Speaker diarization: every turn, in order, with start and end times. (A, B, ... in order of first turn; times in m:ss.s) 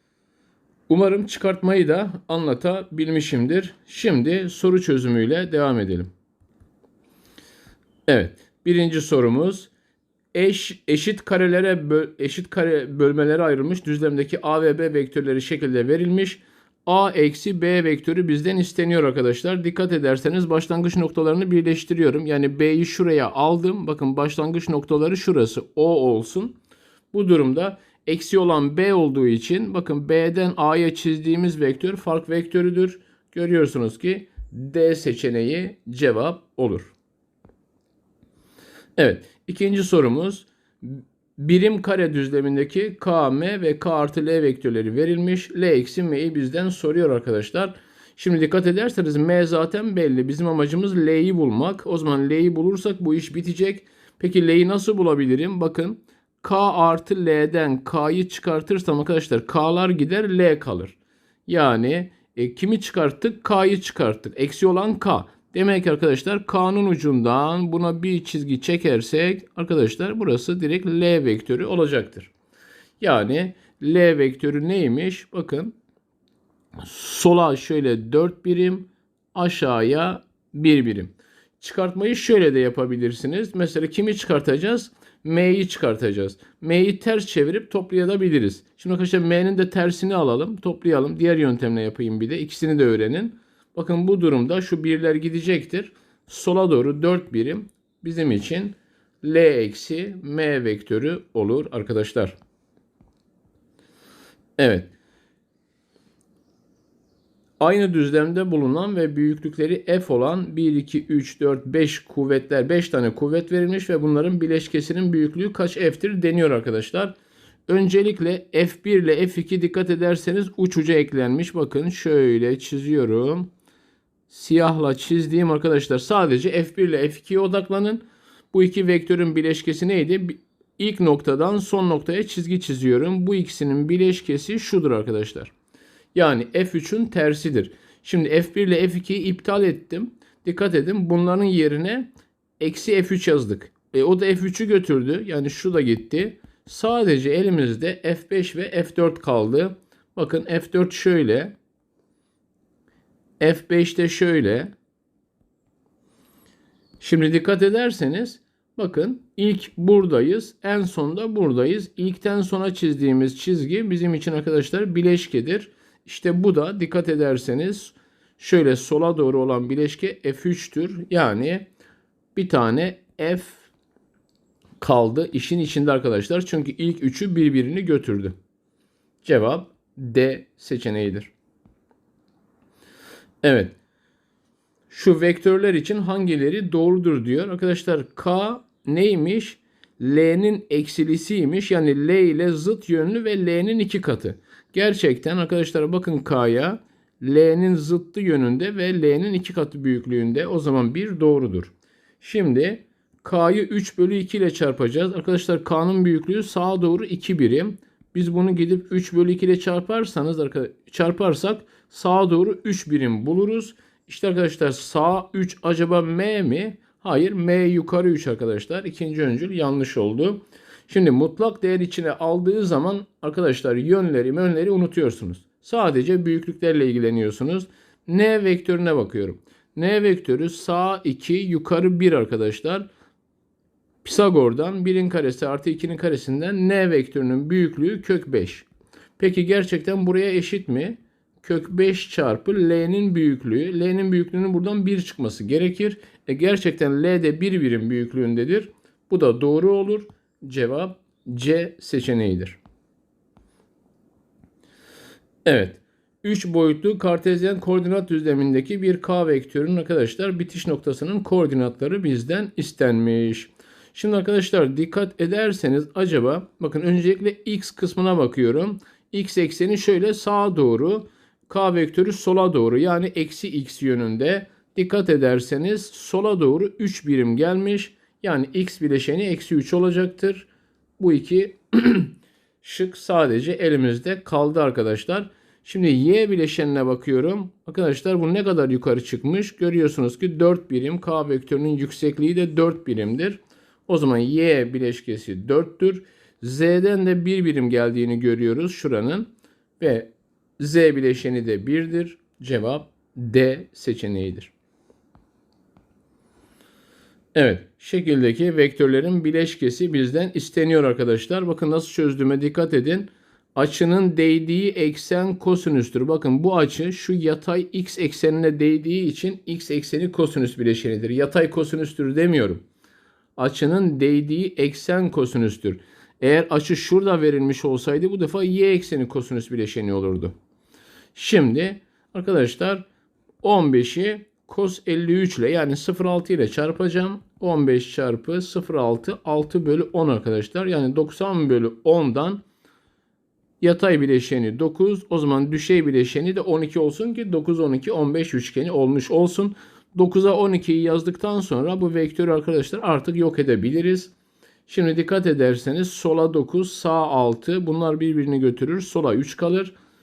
0:00.9-0:06.1 A
0:08.1-0:09.7 A
0:10.3-0:26.6 A
0:27.1-0:36.9 A
0:39.0-1:12.3 A
1:13.0-1:15.7 A
1:16.8-1:42.4 A
1:44.6-1:44.9 A
1:47.6-1:57.2 A
1:57.7-2:03.5 A
2:04.3-2:15.5 A
2:16.2-2:31.6 A
2:33.4-2:34.7 A
2:37.0-2:51.7 A
2:52.4-2:53.7 A
2:54.8-2:58.3 A
2:59.2-3:01.3 A
3:03.4-3:03.8 A
3:04.9-3:52.9 A
3:54.0-3:58.7 A
3:59.2-4:12.6 A
4:15.4-5:04.5 A
5:07.4-5:22.6 A
5:23.4-5:30.3 A
5:31.2-5:32.8 A
5:33.4-5:42.4 A
5:43.6-5:54.1 A
5:54.7-5:59.7 A